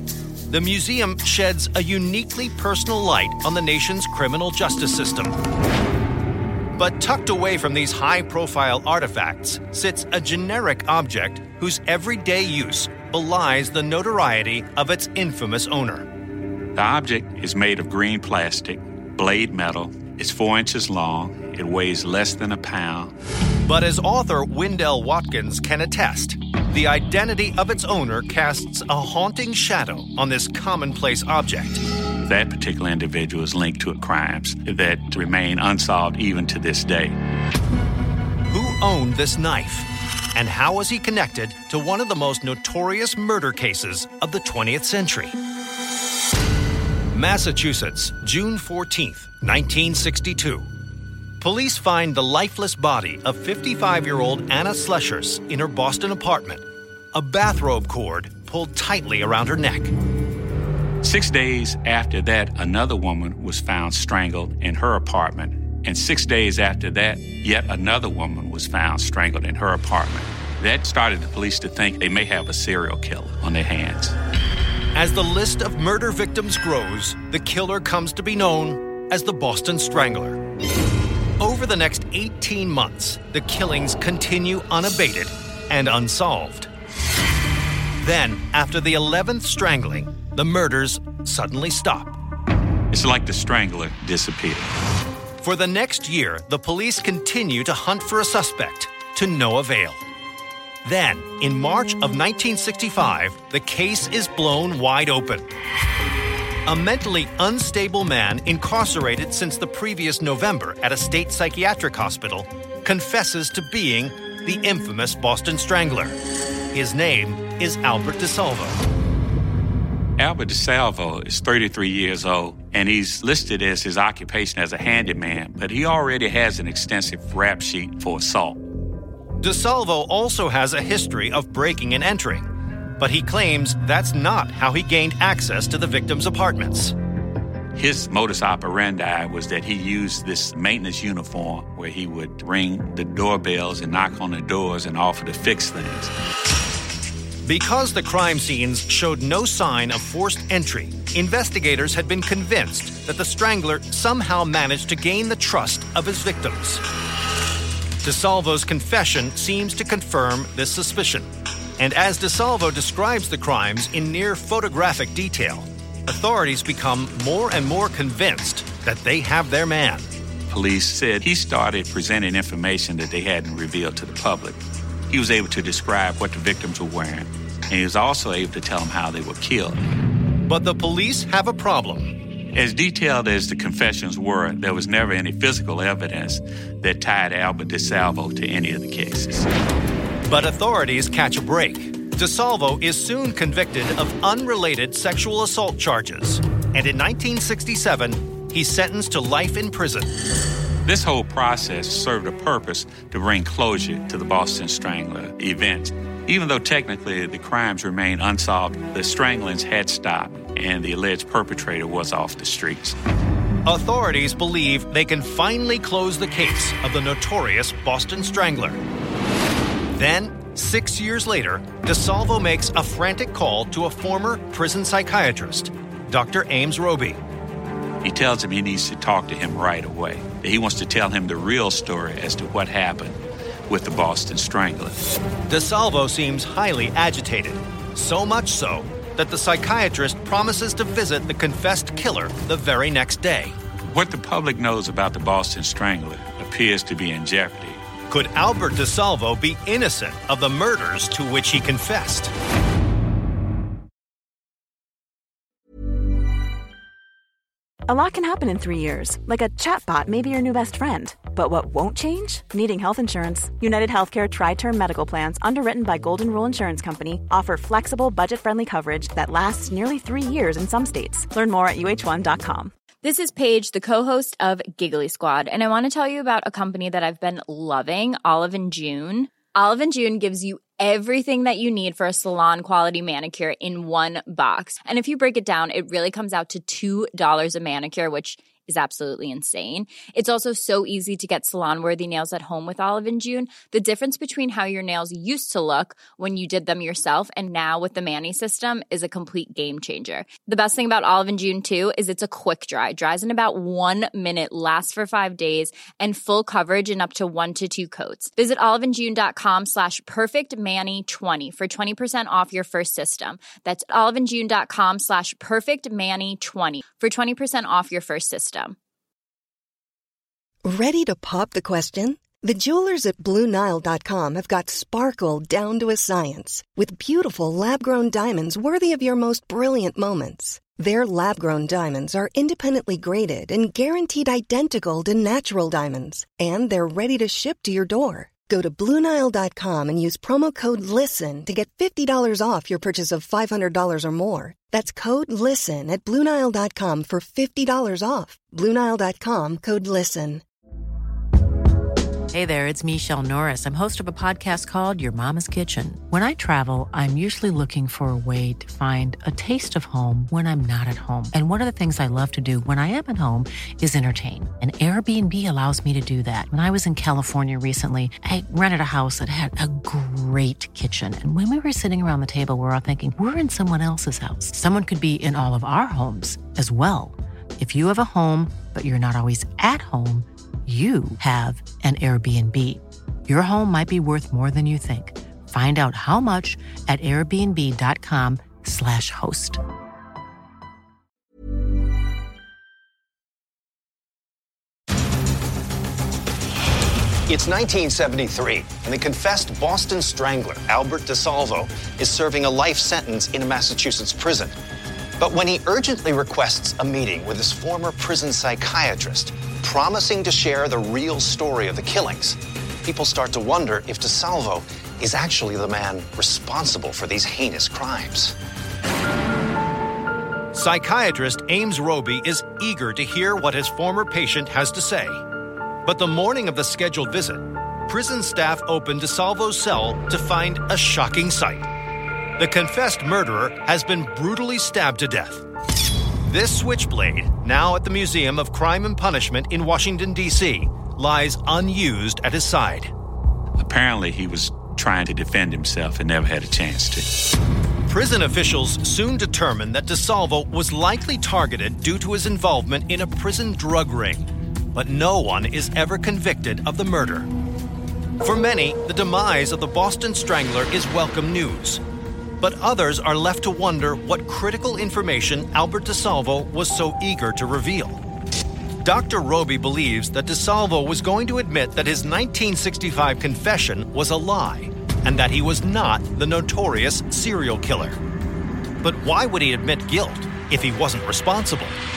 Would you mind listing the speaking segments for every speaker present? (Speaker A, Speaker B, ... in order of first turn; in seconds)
Speaker A: 0.5-5.4, 6.8-16.1, 23.6-31.8, 38.5-45.4, 47.1-50.7, 51.4-59.9, 74.9-80.4, 81.4-86.7, 88.0-92.2, 95.4-100.0, 100.8-105.5, 106.7-116.2, 116.7-118.8, 129.4-132.5, 133.0-136.9, 147.4-156.8, 158.0-170.1, 180.5-182.1, 190.3-200.1, 213.6-218.8, 219.9-227.2, 235.5-243.6, 248.1-252.3, 420.5-425.2, 425.8-431.7, 432.4-435.4, 436.2-442.9, 447.9-457.3, 458.2-461.8, 462.4-468.0, 468.8-478.0, 478.8-481.8
Speaker B: 16.8-23.1, 32.2-37.2, 61.0-74.1, 92.9-94.7, 120.2-128.6, 137.7-146.1, 170.5-179.8, 182.5-189.5, 200.8-213.0, 228.0-235.0, 243.9-247.8, 443.6-447.1
Speaker C: 257.9-272.7
Speaker D: 273.0-318.8
Speaker E: 320.6-350.4
Speaker F: 352.3-389.6
Speaker G: 397.3-404.5, 405.2-418.3